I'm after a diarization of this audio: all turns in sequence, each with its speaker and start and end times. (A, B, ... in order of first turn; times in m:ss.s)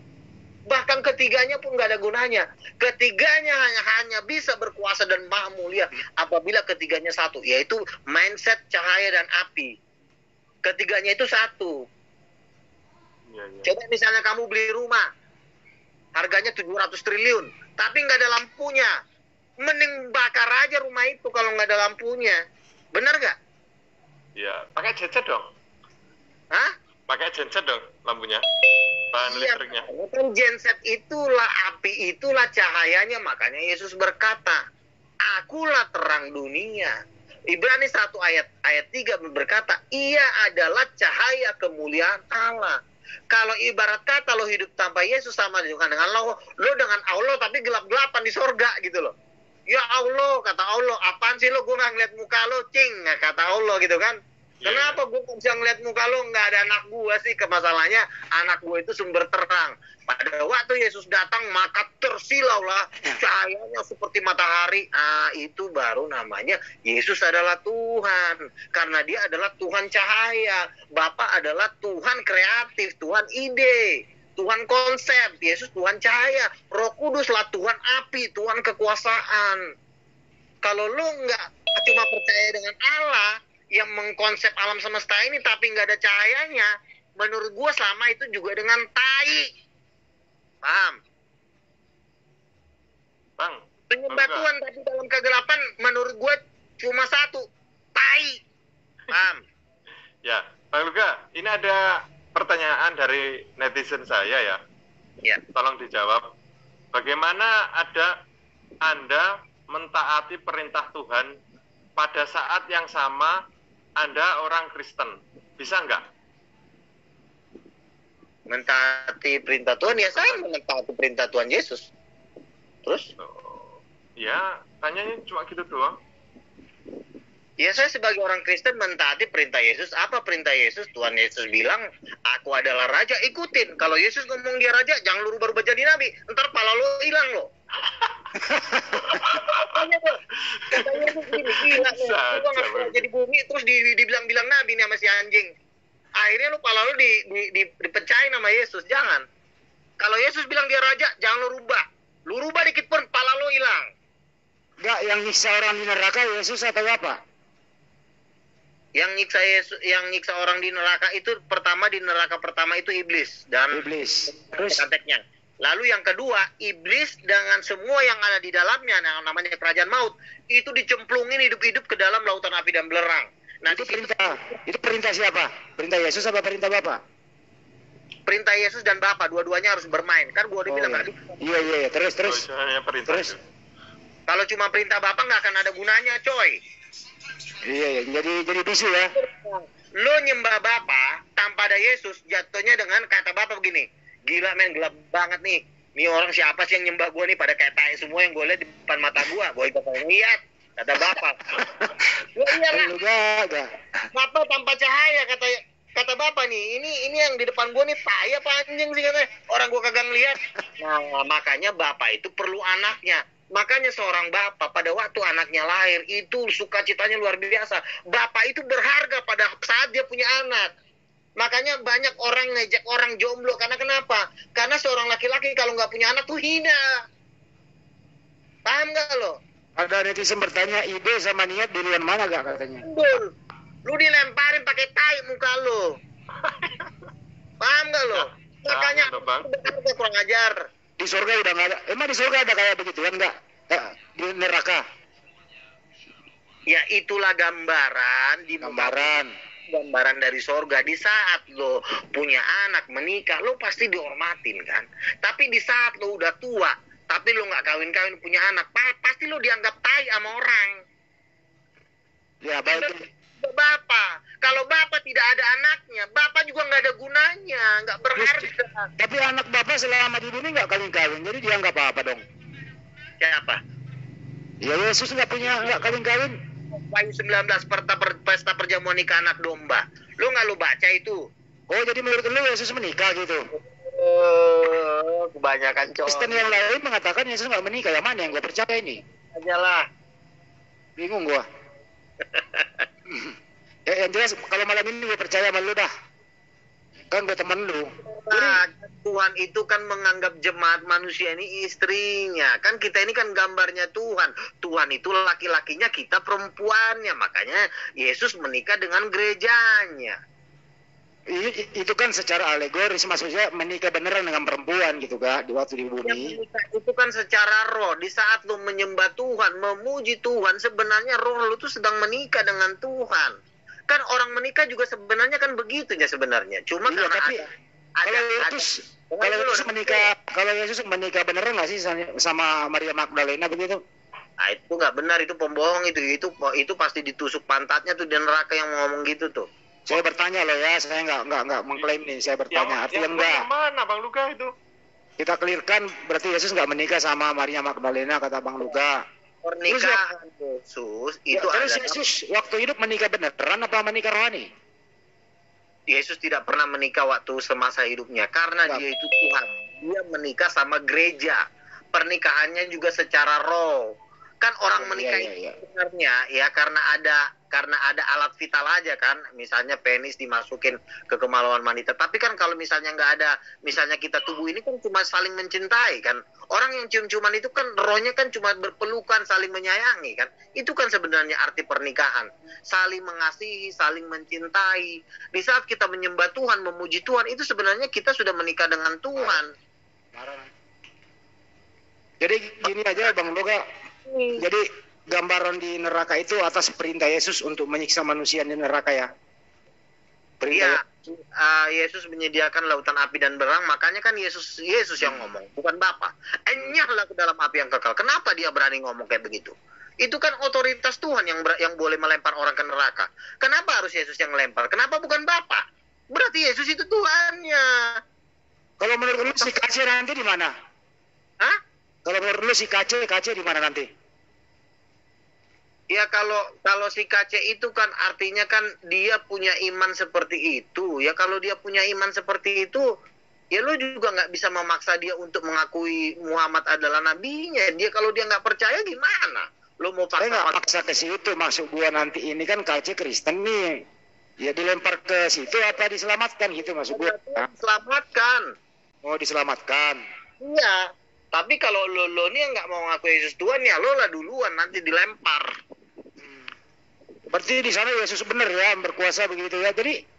0:00.7-0:09.7 A
0:10.6-0:11.8 A
0:13.3-0:13.7 B
0:13.6-0:15.0 A
0:16.2-0:18.9 A
0:19.6-0:22.4 A
0:22.9-0:23.4 A
0:24.4-0:25.5 B
0:27.1-0:28.4 B
0:29.1-0:29.8 B
0:29.2-0:34.6 A
0:35.2-0:36.9 A
0:37.5-0:42.8 A
0:43.3-0:49.1 A
0:49.7-1:19.7 A
0:54.6-0:55.0 B
1:20.6-1:29.5 A
1:30.6-1:31.0 A
1:33.4-1:34.5 B
1:33.9-1:38.4 A
1:39.1-1:39.4 A
1:40.2-1:41.8 B
1:42.3-1:44.6 B
1:45.5-1:46.2 B
1:46.9-1:48.1 B
1:48.8-1:51.3 B
1:52.0-1:53.4 B
1:54.0-1:56.0 B
1:58.5-2:01.9 A
2:00.1-2:00.4 B
2:03.2-2:06.0 B
2:07.6-2:17.5 A
2:17.9-2:19.7 B
2:18.5-2:19.1 C
2:19.2-2:20.2 A
2:20.5-2:23.0 B
2:20.7-2:25.5 A
2:26.2-2:29.2 A
2:30.0-2:33.9 A
2:34.8-2:37.2 C
2:39.0-2:54.5 A
2:43.7-2:44.8 C
2:53.7-2:57.0 C
2:58.3-3:01.4 A
3:00.7-3:02.4 C
3:02.2-3:03.4 B
3:03.1-3:03.3 C
3:04.3-3:06.6 A
3:07.6-3:09.1 C
3:09.1-3:21.6 A
3:21.0-3:23.7 C
3:22.3-3:22.9 A
3:24.1-3:40.7 A
3:41.4-3:47.0 A
3:48.6-3:49.4 A
3:49.8-3:52.8 C
3:52.8-3:53.3 A
3:53.9-3:55.9 A
3:56.4-3:56.9 B
3:57.6-4:00.6 A
3:58.2-3:59.5 B
4:01.0-4:04.8 C
4:06.7-4:09.2 A
4:08.6-4:09.3 C
4:09.7-4:20.8 A
4:22.4-4:23.0 C
4:22.6-4:28.9 A
4:28.2-4:28.4 C
4:29.0-4:32.2 C
4:33.2-4:33.6 A
4:34.6-4:36.4 C
4:35.5-4:35.8 A
4:36.7-4:41.2 A
4:41.7-4:43.4 C
4:43.5-4:46.7 A
4:46.1-4:49.0 C
4:49.3-4:49.8 A
4:51.0-4:51.4 C
4:52.3-4:52.8 A
4:53.1-4:53.4 C
4:53.9-4:55.9 C
4:57.1-4:58.6 C
4:58.1-5:10.2 A
5:11.3-5:16.3 C
5:16.0-5:23.4 A
5:23.9-5:27.5 A
5:26.9-5:27.4 C
5:28.0-5:30.1 A
5:28.0-5:33.8 C
5:34.4-5:39.5 A
5:39.9-5:43.4 C
5:42.5-5:44.5 B
5:45.2-5:49.0 C
5:49.4-5:52.0 A
5:49.7-5:50.0 C
5:51.3-5:54.5 C
5:55.9-6:01.4 A
6:01.9-6:29.5 A
6:04.8-6:05.6 C
6:29.2-6:29.4 C
6:30.1-6:30.5 C
6:32.2-6:33.6 C
6:34.1-6:34.4 A
6:34.4-6:39.1 C
6:40.4-6:40.8 C
6:40.5-6:58.0 A
6:58.8-7:00.5 C
7:02.0-7:03.9 C
7:05.9-7:12.8 A
7:13.5-7:20.7 A
7:20.2-7:23.8 C
7:24.4-7:27.5 C
7:26.9-7:28.5 A
7:29.0-7:30.0 C
7:30.4-7:30.8 A
7:31.3-7:35.5 A
7:37.3-7:40.0 C